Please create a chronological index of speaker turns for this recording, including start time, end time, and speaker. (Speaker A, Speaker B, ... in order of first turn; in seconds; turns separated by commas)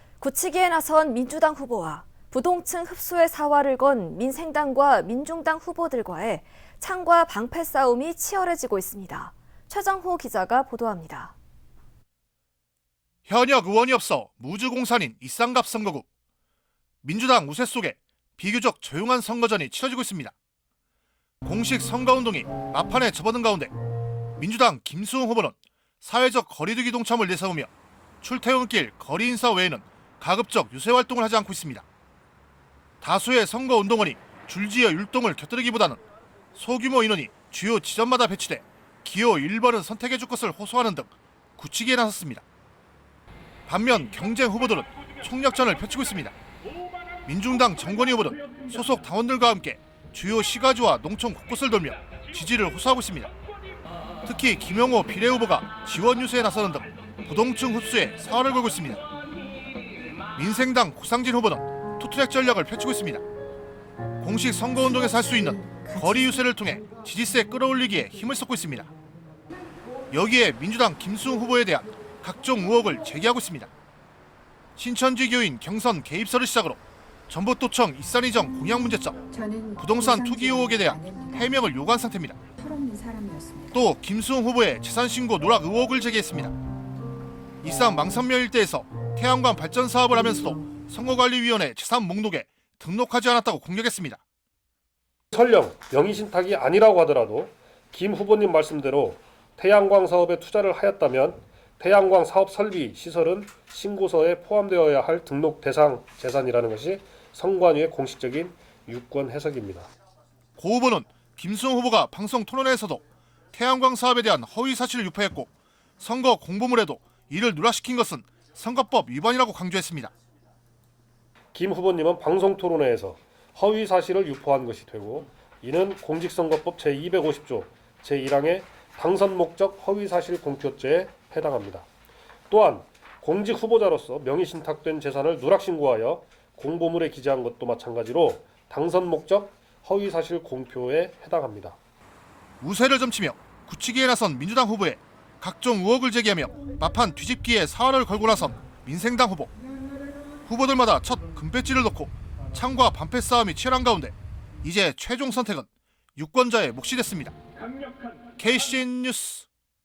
Speaker A: 0.2-11.3, Speaker B: 13.3-16.1, Speaker B: 17.0-20.3, Speaker B: 21.4-23.7, Speaker B: 24.4-27.7, Speaker B: 28.2-31.9, Speaker B: 33.0-36.0, Speaker B: 36.5-42.4, Speaker B: 43.7-46.4, Speaker B: 47.3-53.3, Speaker B: 54.2-59.0, Speaker B: 60.4-63.2, Speaker B: 64.2-68.9, Speaker C: 65.3-66.3, Speaker B: 70.1-73.7, Speaker B: 74.8-79.2, Speaker C: 79.3-81.7, Speaker B: 79.8-82.4, Speaker C: 82.6-83.9, Speaker B: 83.7-86.6, Speaker B: 87.6-94.2, Speaker D: 95.3-109.9, Speaker B: 110.6-120.1, Speaker D: 121.5-131.8, Speaker D: 132.5-141.8, Speaker B: 142.6-149.5, Speaker B: 150.5-157.3, Speaker B: 158.4-159.5